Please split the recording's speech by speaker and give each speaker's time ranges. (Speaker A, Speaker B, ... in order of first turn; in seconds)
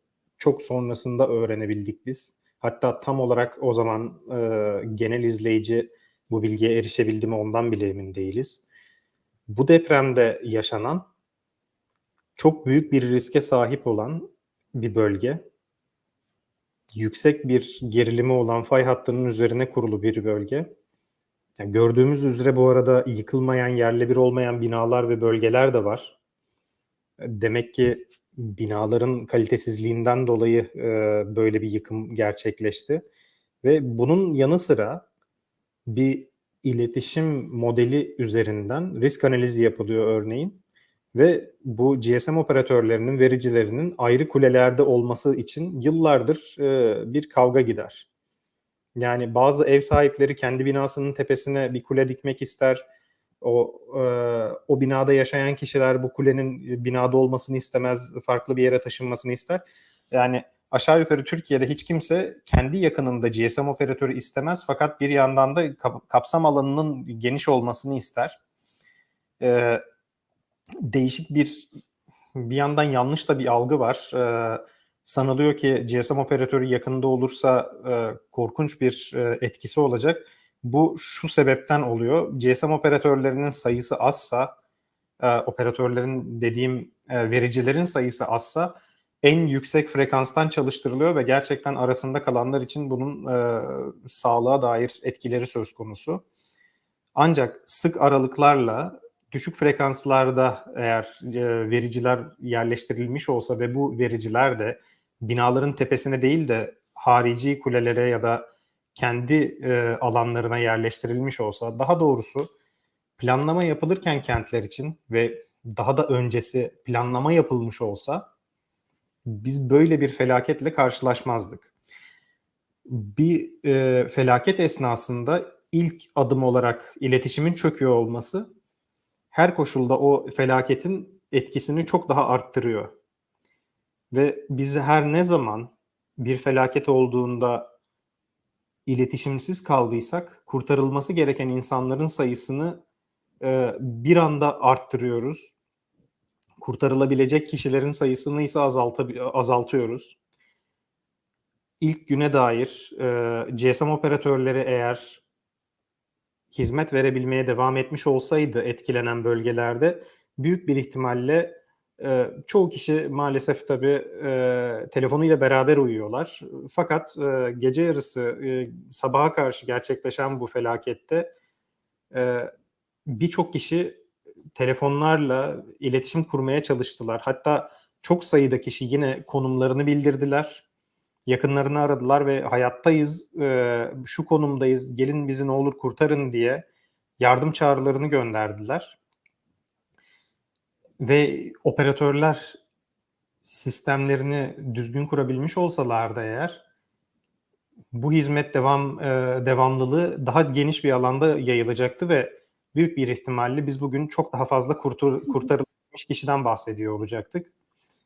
Speaker A: 0.4-8.6, 9.5-11.1, 12.4-15.4, 16.9-20.7, 21.6-26.2, 27.2-33.0, 33.6-35.1, 35.9-40.6, 41.1-48.1, 49.0-52.8, 53.4-68.4, 69.4-69.8, 70.9-71.7, 72.3-84.5, 85.2-96.2, 97.2-112.5, 113.2-118.3, 119.3-121.7, 122.9-128.5, 129.3-132.9, 134.1-137.7, 138.9-142.8, 143.4-145.5, 146.6-150.2, 151.8-155.2, 156.5-171.3, 172.1-172.5, 173.1-174.0, 174.6-180.7, 181.3-186.7, 187.2-189.0, 191.0-192.6, 193.4-196.6, 197.9-207.5